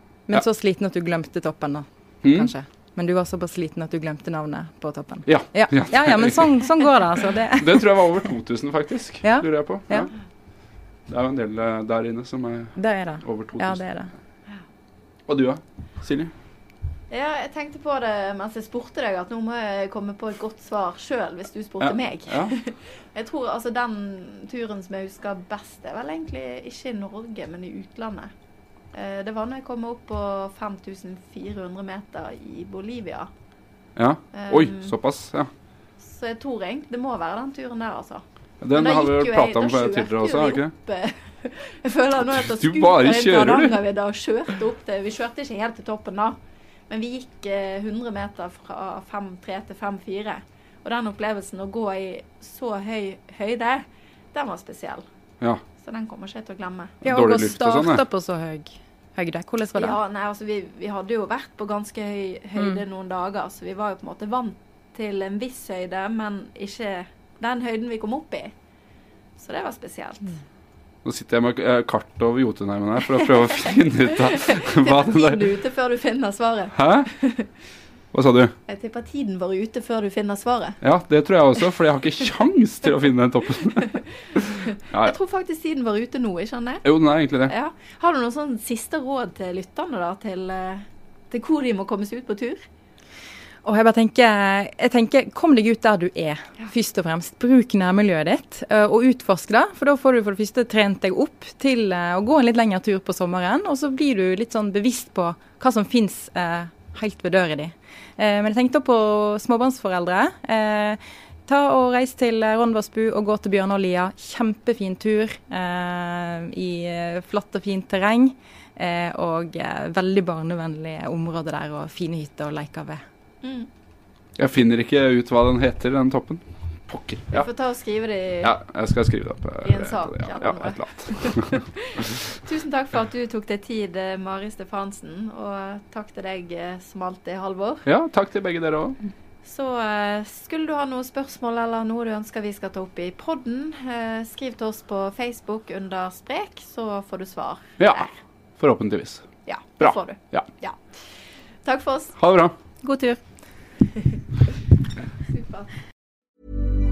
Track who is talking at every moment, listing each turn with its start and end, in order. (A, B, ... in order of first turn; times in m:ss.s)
0:00.3-0:07.9 A
0:02.2-0:02.5 B
0:05.2-0:10.1 B
0:09.2-0:10.1 A
0:11.1-0:13.8 B
0:12.8-0:14.1 A
0:15.3-0:16.3 B
0:17.1-0:28.3 C
0:21.8-0:22.5 B
0:28.9-0:33.3 C
0:34.0-0:35.5 B
0:34.3-0:34.9 C
0:36.0-0:38.2 C
0:38.6-0:40.7 B
0:38.7-0:46.4 C
0:42.3-0:43.8 B
0:46.9-0:55.0 C
0:55.8-0:57.0 C
0:57.0-0:58.0 B
0:57.0-1:00.0 A
0:59.8-1:08.5 C
1:09.4-1:10.3 C
1:11.0-1:15.4 B
1:14.4-1:17.5 C
1:16.7-1:17.1 B
1:18.1-1:18.6 B
1:18.7-1:20.8 C
1:20.8-1:25.1 B
1:23.7-1:24.4 C
1:24.9-1:26.8 C
1:26.8-1:27.5 B
1:27.5-1:32.6 C
1:33.6-2:03.0 A
2:03.4-2:03.7 C
2:04.4-2:07.5 B
2:07.3-2:08.6 C
2:08.4-2:12.0 B
2:09.6-2:17.9 C
2:17.9-2:19.0 B
2:19.4-2:28.1 C
2:27.8-2:30.5 B
2:29.4-2:32.2 C
2:32.2-2:32.6 B
2:32.8-2:33.2 A
2:35.3-2:35.7 C